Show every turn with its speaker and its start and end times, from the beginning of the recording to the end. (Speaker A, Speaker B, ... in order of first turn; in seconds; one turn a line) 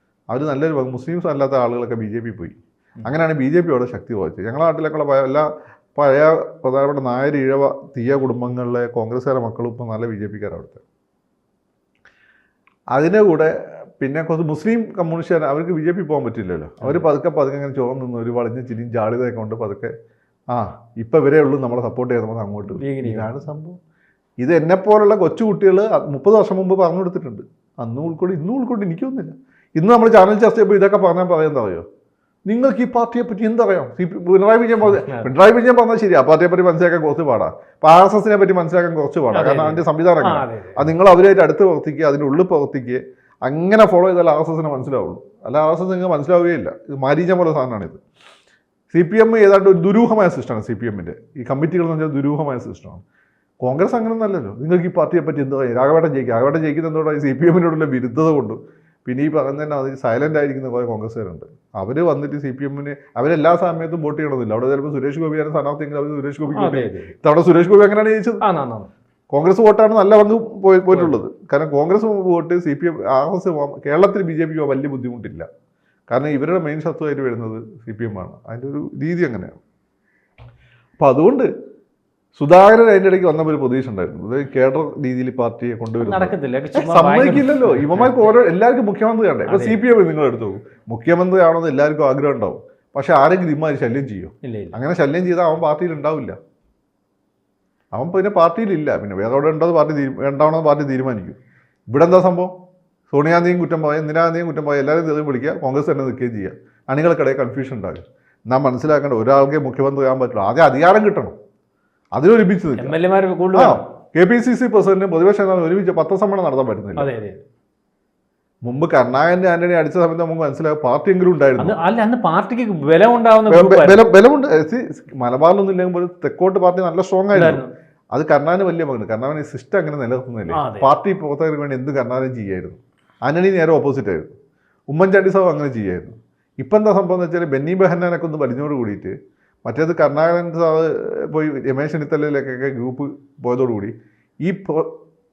Speaker A: 0.3-10.8
Speaker A: 12.9-19.9
Speaker B: 16.8-17.1
Speaker A: 20.5-23.8
Speaker B: 22.7-23.3
Speaker A: 24.4-31.9
Speaker A: 32.5-48.0
Speaker B: 34.9-35.3
Speaker B: 39.3-40.9
Speaker A: 48.9-53.0
Speaker A: 53.6-68.4
Speaker B: 66.5-67.2
Speaker B: 68.4-68.9
Speaker A: 69.3-75.5
Speaker B: 70.9-71.2
Speaker A: 76.1-79.6
Speaker A: 81.0-81.5
Speaker A: 82.4-96.4
Speaker B: 86.0-88.2
Speaker B: 89.5-89.8
Speaker B: 94.4-94.8
Speaker A: 97.9-101.4
Speaker A: 101.9-102.5
Speaker A: 103.1-111.3
Speaker A: 112.1-113.0
Speaker B: 112.8-113.8
Speaker A: 113.5-117.1
Speaker B: 117.0-117.4
Speaker A: 118.6-121.8
Speaker B: 121.6-124.0
Speaker A: 123.5-134.3
Speaker B: 127.3-127.7
Speaker B: 130.5-130.9
Speaker A: 134.9-144.9